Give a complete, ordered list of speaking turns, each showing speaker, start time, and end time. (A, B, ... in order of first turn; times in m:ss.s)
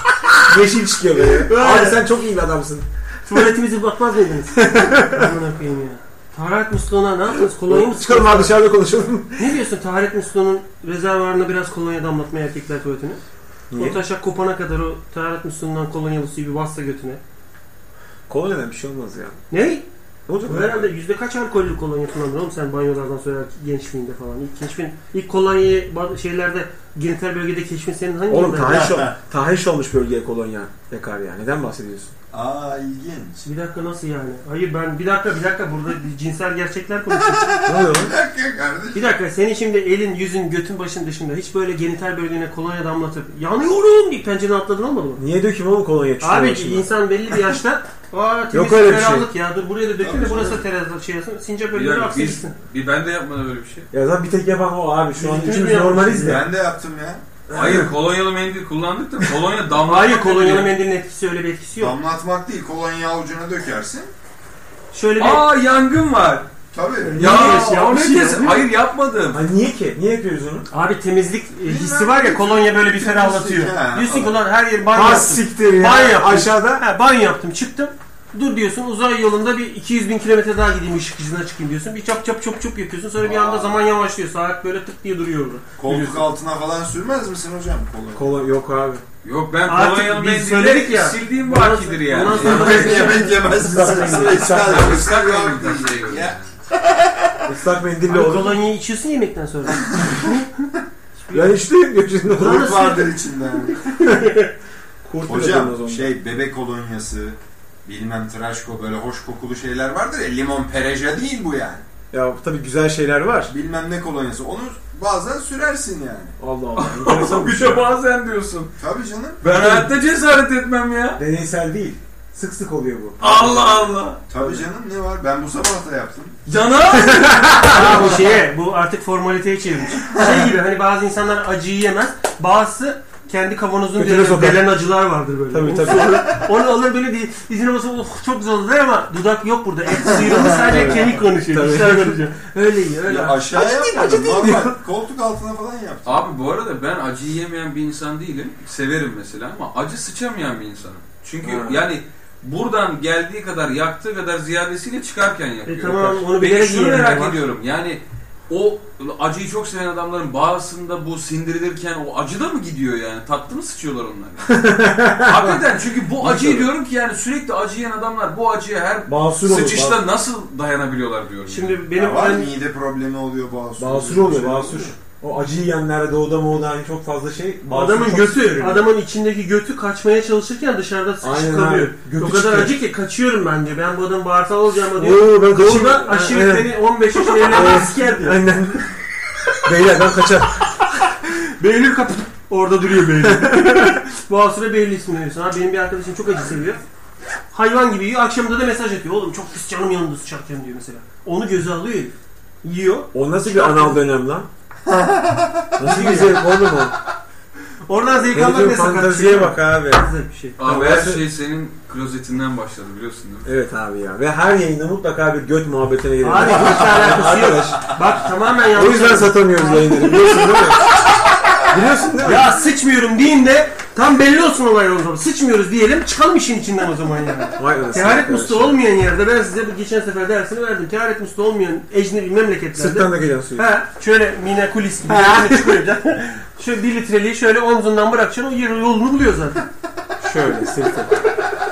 0:00.4-0:02.9 A
0:01.4-0:02.0 B
0:03.3-0:08.6 B
0:04.6-0:05.3 A
0:07.7-0:09.5 A
0:09.4-0:13.2 B
0:13.7-0:14.0 A
0:13.8-0:17.2 B
0:18.3-0:19.4 A
0:19.5-0:19.9 B
0:20.3-0:20.9 A
0:20.4-0:29.1 B
0:28.3-0:32.1 A
0:28.7-0:29.1 C
0:32.3-0:33.4 C
0:33.4-0:37.6 B
0:37.2-0:39.1 C
0:37.7-0:38.1 A
0:38.9-0:45.2 B
0:45.2-0:46.9 A
0:46.2-0:52.6 B
0:48.5-0:49.3 A
0:50.0-0:50.6 C
0:51.7-0:53.9 D
0:53.9-0:56.5 A
0:55.2-0:56.4 B
0:56.2-0:57.2 C
0:57.5-0:57.9 A
0:57.5-1:00.7 D
0:59.8-1:02.0 B
1:01.8-1:04.1 C
1:04.9-1:05.4 B
1:05.2-1:06.5 D
1:06.7-1:07.3 C
1:07.0-1:08.6 B
1:07.2-1:09.4 D
1:07.2-1:07.6 A
1:09.3-1:10.7 A
1:10.7-1:25.7 B
1:11.6-1:14.3 C
1:14.9-1:16.8 A
1:23.2-1:23.8 C
1:25.8-1:28.4 C
1:25.9-1:26.2 A
1:28.2-1:29.0 A
1:29.2-1:33.2 D
1:29.7-1:33.9 B
1:32.3-1:37.5 C
1:32.4-1:35.0 A
1:34.2-1:36.5 D
1:37.5-1:38.6 A
1:38.1-1:40.5 B
1:39.8-1:40.3 C
1:41.2-1:41.6 B
1:41.3-1:42.7 A
1:42.3-1:43.2 B
1:42.3-1:43.9 C
1:43.7-1:44.5 B
1:45.0-1:46.1 A
1:45.3-1:51.8 C
1:52.1-1:53.5 A
1:53.5-1:56.4 C
1:56.4-1:57.9 A
1:56.8-1:58.7 D
1:58.8-1:59.4 C
1:59.4-2:01.2 D
1:59.5-1:59.9 A
2:01.2-2:03.9 A
2:03.2-2:04.2 D
2:04.3-2:06.4 C
2:04.4-2:04.6 A
2:06.5-2:08.0 D
2:06.9-2:08.2 A
2:07.6-2:23.5 B
2:10.1-2:10.4 C
2:14.0-2:14.7 A
2:15.5-2:16.4 A
2:19.9-2:21.0 C
2:20.5-2:22.2 A
2:23.0-2:26.3 C
2:23.5-2:24.8 A
2:26.0-2:51.8 D
2:31.4-2:31.8 A
2:35.7-2:37.4 B
2:44.5-2:45.6 A
2:46.2-2:46.7 A
2:49.1-2:50.0 A
2:51.5-2:52.5 B
2:51.9-2:54.9 C
2:53.8-2:58.9 A
2:57.7-3:08.4 B
3:01.2-3:02.8 A
3:04.9-3:06.8 A
3:07.3-3:08.9 A
3:09.6-3:10.8 A
3:11.2-3:16.8 B
3:13.2-3:14.0 A
3:17.5-3:24.0 B
3:23.1-3:24.5 A
3:24.9-3:26.3 C
3:25.8-3:27.0 A
3:25.8-3:26.4 B
3:27.9-3:30.6 B
3:28.3-3:30.1 A
3:30.6-3:33.5 D
3:30.6-3:31.2 A
3:33.4-3:38.0 A
3:36.2-3:40.9 B
3:38.7-3:41.0 A
3:41.7-3:42.6 A
3:42.2-3:59.6 B
3:47.6-3:48.8 A
3:52.7-3:53.7 A
3:55.1-3:55.8 A
4:00.2-4:01.2 A